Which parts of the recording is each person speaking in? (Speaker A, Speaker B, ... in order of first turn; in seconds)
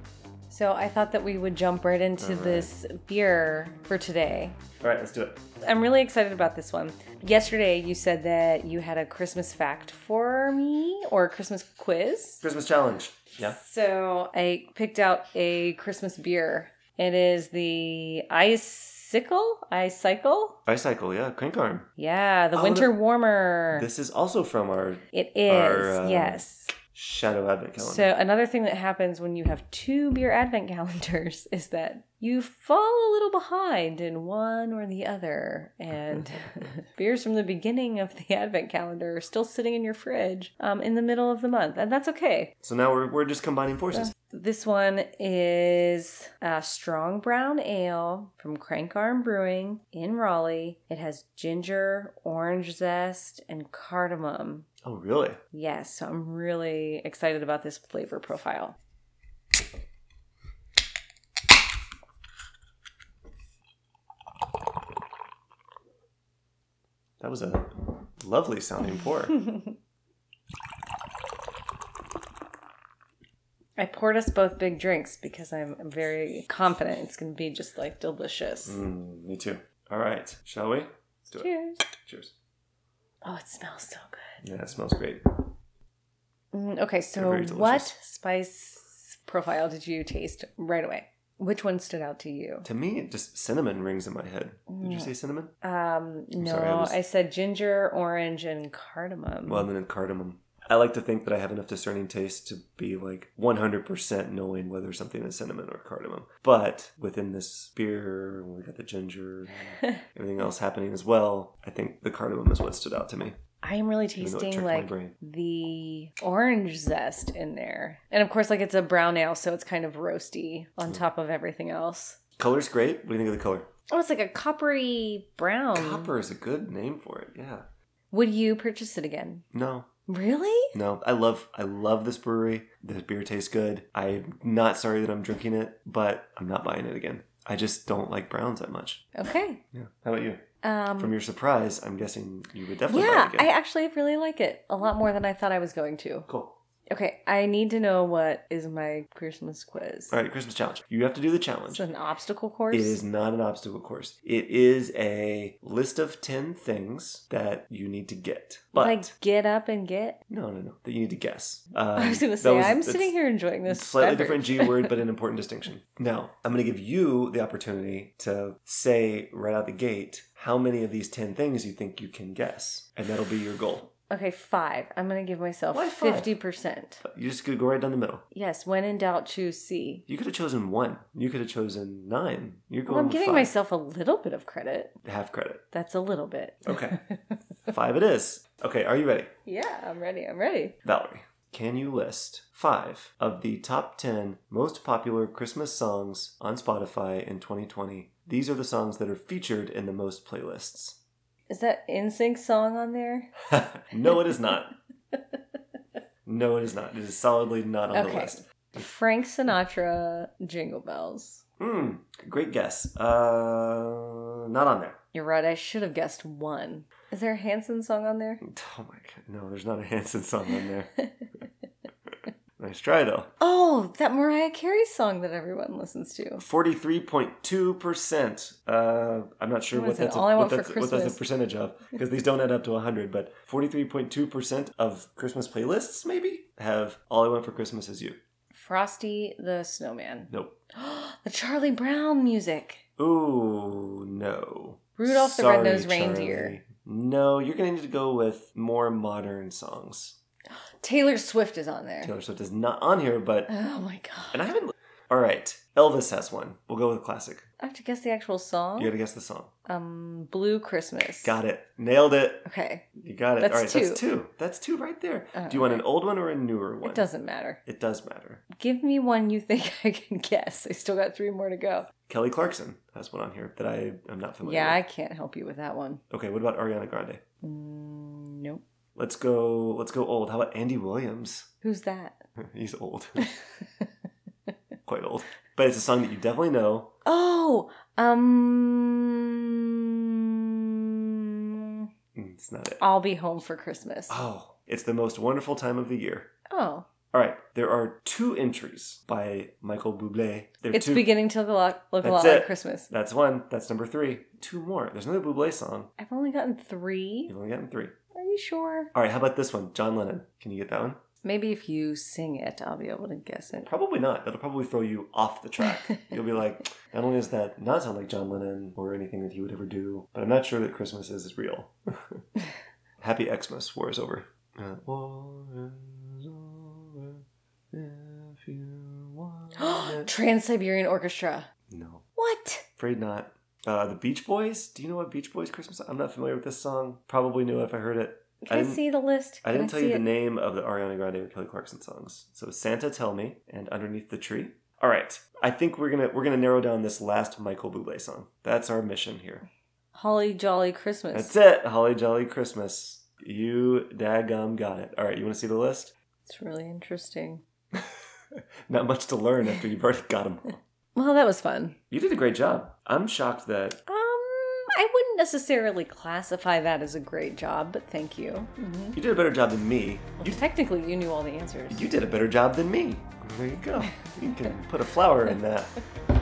Speaker A: 0.5-4.6, 5.6-12.4, 13.4-20.6, 22.0-23.9, 25.1-26.8, 27.8-42.5, 44.1-54.7, 55.5-58.8, 73.8-78.8, 81.4-81.8, 83.2-84.4, 86.5-92.7, 94.7-95.1, 95.6-99.7, 113.6-122.2, 123.9-126.1, 128.1-129.4, 130.1-130.7, 139.2-139.6, 140.6-141.2, 142.9-146.3, 146.9-150.2, 151.7-153.0, 158.8-160.2, 161.9-164.9, 174.1-177.0, 178.3-180.1, 182.9-185.0, 185.7-187.4, 189.5-190.8, 201.5-203.3, 207.9-211.4, 215.1-218.4, 221.0-221.4, 223.4-226.4, 229.7-231.2, 238.5-242.8, 245.0-246.6, 250.6-252.1, 253.5-254.5, 257.6-258.9, 259.7-261.4, 262.4-262.9, 263.4-264.0, 265.4-265.8, 266.8-267.6, 268.5-271.9, 274.4-276.0, 277.4-278.6, 281.6-282.2, 283.2-283.9, 287.1-291.9, 292.8-294.2, 296.5-296.9, 300.7-302.9, 306.0-307.3, 308.1-308.9, 311.2-313.7, 329.6-331.5, 332.2-332.7, 338.4-340.1, 349.9-351.3, 356.3-357.4, 360.9-361.8, 363.9-369.0, 370.2-371.9
Speaker B: 2.2-2.7, 4.8-5.4, 12.4-13.6, 20.7-21.9, 22.5-22.9, 23.7-28.1, 42.6-44.1, 54.8-55.4, 67.2-69.4, 78.7-82.3, 84.4-85.4, 87.2-87.9, 92.7-95.5, 96.4-97.0, 99.5-113.4, 114.2-115.2, 122.4-123.7, 125.8-127.7, 129.5-129.9, 130.7-139.1, 139.7-140.4, 141.0-143.5, 146.3-146.6, 150.1-151.8, 152.7-159.1, 160.3-163.1, 163.7-173.9, 175.7-176.3, 177.0-178.2, 180.1-183.5, 185.1-185.6, 186.7-187.0, 187.7-189.3, 190.8-201.0, 203.5-204.7, 206.3-208.4, 211.6-215.0, 218.4-220.9, 222.6-223.3, 226.4-238.2, 240.3-240.6, 243.0-250.2, 252.0-253.5, 254.3-257.4, 258.8-259.5, 261.2-262.4, 263.0-267.1, 267.7-268.4, 272.1-274.8, 276.1-277.2, 279.0-281.5, 282.4-283.3, 284.9-286.9, 292.1-292.8, 294.1-296.3, 297.1-301.2, 302.0-305.9, 307.3-307.9, 308.9-311.0, 313.7-322.2, 323.0-330.1, 331.7-332.1, 332.8-338.8, 339.4-349.5, 351.1-355.9, 358.7-360.6, 361.9-363.8, 368.9-370.4, 371.7-375.7